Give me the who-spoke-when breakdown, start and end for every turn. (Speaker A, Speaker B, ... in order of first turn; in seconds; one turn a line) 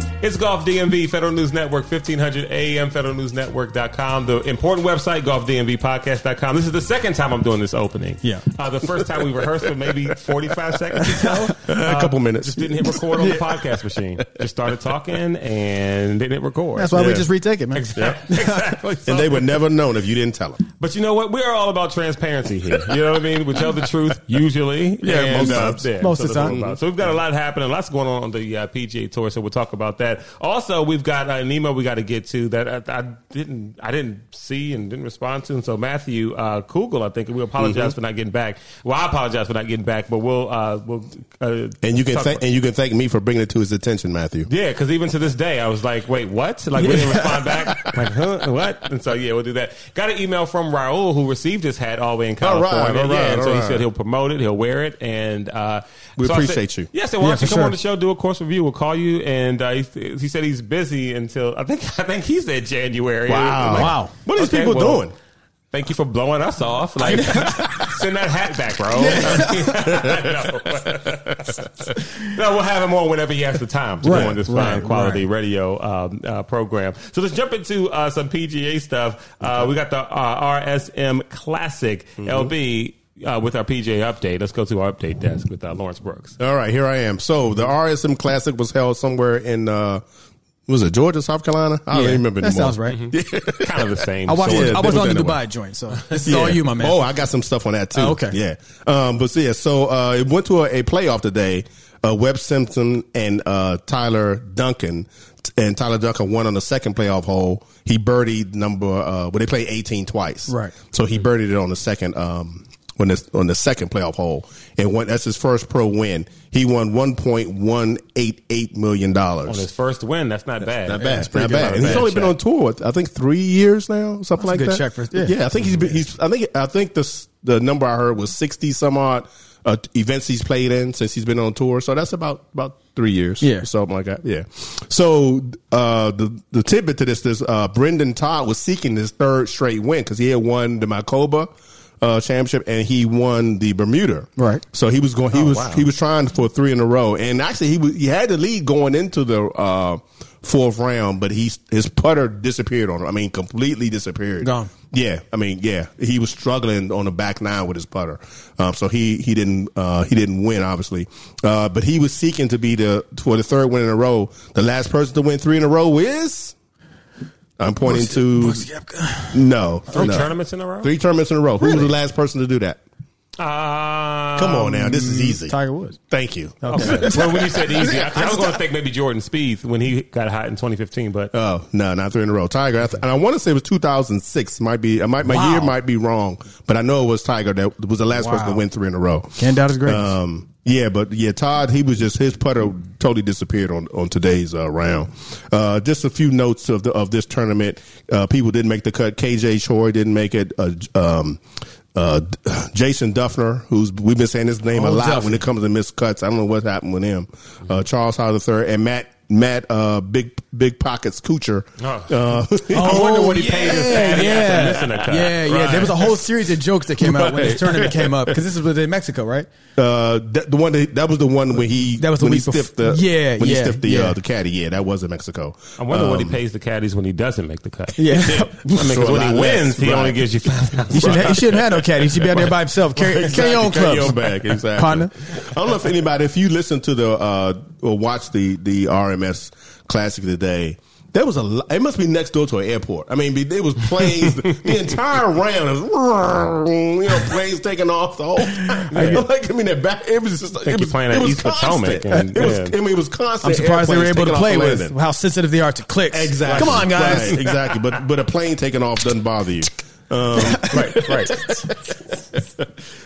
Speaker A: 0.2-16.9
Speaker B: 11.2-11.5
Speaker C: 11.6-13.4
Speaker B: 16.8-18.7
Speaker C: 16.9-17.2
Speaker A: 17.7-19.5
Speaker C: 17.9-18.2
Speaker C: 19.0-20.6
Speaker A: 20.8-42.4
Speaker C: 25.0-25.9
Speaker B: 25.1-26.6
Speaker C: 26.4-26.8
Speaker C: 37.6-37.9
Speaker C: 41.8-44.5
Speaker A: 44.5-65.1
Speaker B: 46.8-47.9
Speaker C: 52.4-53.9
Speaker C: 56.2-56.9
Speaker B: 57.2-57.7
Speaker C: 63.3-65.1
Speaker B: 63.6-64.1
Speaker A: 65.7-86.3
Speaker B: 67.0-68.0
Speaker B: 68.9-69.9
Speaker C: 69.4-71.9
Speaker B: 74.0-75.2
Speaker C: 74.1-74.4
Speaker C: 82.2-82.5
Speaker C: 86.4-90.0
Speaker C: 90.7-95.4
Speaker B: 91.9-93.0
Speaker A: 92.9-95.0
Speaker B: 94.3-97.0
Speaker C: 96.2-119.7
Speaker B: 97.9-98.4
Speaker B: 110.5-110.7
Speaker A: 119.5-122.3
Speaker C: 120.8-141.5
Speaker B: 121.0-121.9
Speaker B: 124.4-125.4
Speaker B: 133.4-133.7
Speaker C: 142.0-166.5
Speaker B: 144.4-144.6
Speaker A: 145.3-145.8
Speaker B: 154.4-154.7
Speaker C: 167.6-168.7
Speaker B: 167.8-170.2
Speaker C: 169.3-172.8
Speaker A: 169.9-170.9
Speaker B: 171.6-171.9
Speaker A: 173.4-174.7
Speaker C: 174.3-175.5
Speaker B: 174.7-176.0
Speaker C: 176.1-178.6
Speaker B: 176.6-178.3
Speaker A: 176.7-181.3
Speaker C: 181.3-201.4
Speaker B: 185.2-185.7
Speaker B: 188.2-188.6
Speaker B: 189.4-190.1
Speaker C: 201.9-214.7
Speaker B: 204.7-205.4
Speaker A: 211.8-212.2
Speaker B: 212.7-219.5
Speaker A: 212.7-215.9
Speaker C: 215.4-216.2
Speaker C: 217.0-218.4
Speaker C: 219.8-226.4
Speaker B: 222.0-224.2
Speaker A: 225.8-231.4
Speaker B: 227.9-228.8
Speaker C: 228.1-230.3
Speaker C: 230.9-255.0
Speaker B: 230.9-235.1
Speaker B: 248.8-249.2
Speaker A: 248.9-249.2
Speaker A: 250.7-252.8
Speaker B: 253.4-257.5
Speaker C: 256.1-262.7
Speaker A: 256.5-257.4
Speaker B: 260.4-261.4
Speaker A: 260.7-261.4